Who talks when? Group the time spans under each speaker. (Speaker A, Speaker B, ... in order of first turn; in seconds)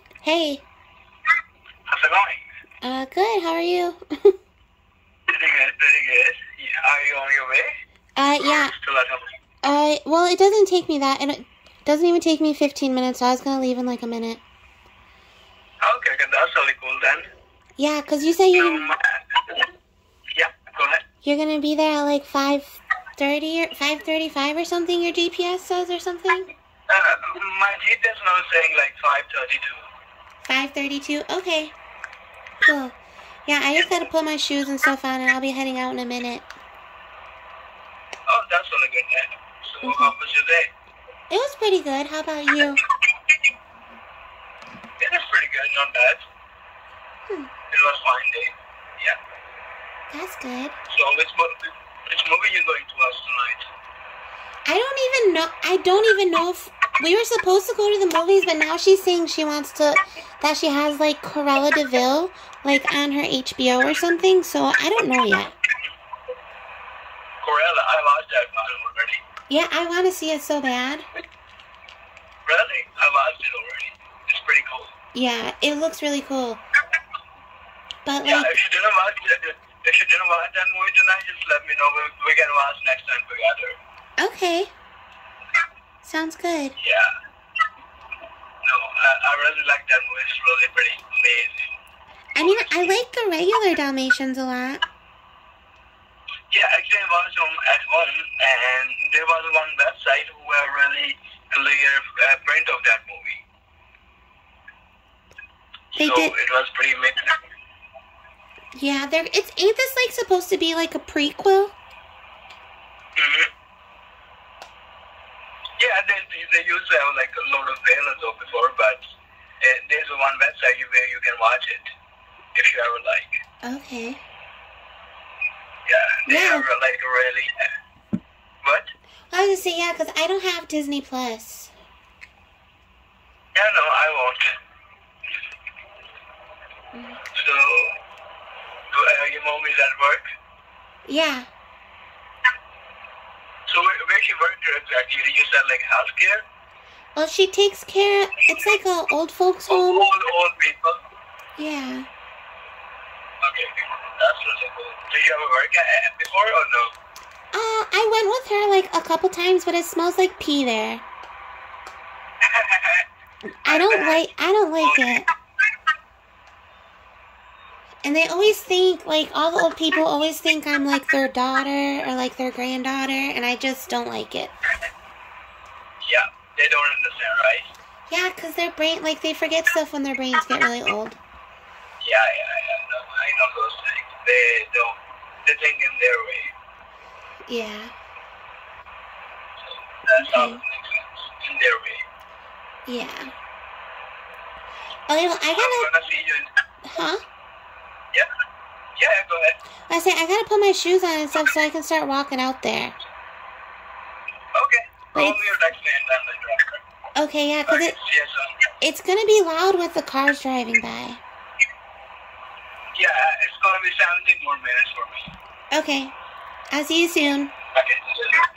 Speaker A: 0.2-0.6, 2.8-4.3, 8.2-8.7, 9.6-14.4, 17.8-18.9, 21.2-26.5, 30.4-31.8, 32.6-36.5, 39.8-40.1, 41.3-42.8, 50.1-50.8, 54.7-65.5, 69.5-71.1, 75.1-76.6, 78.0-78.5, 84.2-84.7, 86.0-86.8, 92.3-94.8, 106.0-106.3, 108.7-111.7, 123.6-124.2, 126.3-126.7, 129.3-131.7, 136.9-137.2, 141.1-141.5, 147.2-150.1, 151.6-152.1, 157.5-161.0, 163.6-165.3, 168.0-174.5, 178.1-181.2, 187.5-187.9, 190.2-190.6, 192.8-193.3, 195.1-195.9, 196.8-197.2, 199.9-203.0, 205.1-205.4, 207.2-207.9, 208.8-211.2, 215.7-216.1, 216.7-217.5
Speaker B: 1.9-2.4, 5.3-7.7, 8.4-9.2, 15.8-17.3, 18.5-19.5, 20.3-21.0, 26.9-29.9, 38.3-40.7, 45.0-46.2, 47.7-49.2, 50.9-53.7, 67.4-69.2, 72.5-74.9, 78.2-83.8, 86.8-87.1, 88.6-91.7, 92.4-92.9, 96.5-103.4, 105.9-107.2, 113.2-113.5, 115.8-121.9, 122.5-123.4, 125.8-127.5, 128.6-128.9, 133.5-134.4, 137.3-137.9, 138.9-140.2, 143.7-146.4, 149.7-151.0, 153.4-156.9, 162.5-163.0, 163.7-164.2, 164.8-165.1, 176.0-177.7, 182.0-186.5, 189.6-192.0, 195.5-196.5, 198.9-199.6, 204.5-206.8, 207.7-208.7, 212.9-215.3, 217.7-218.4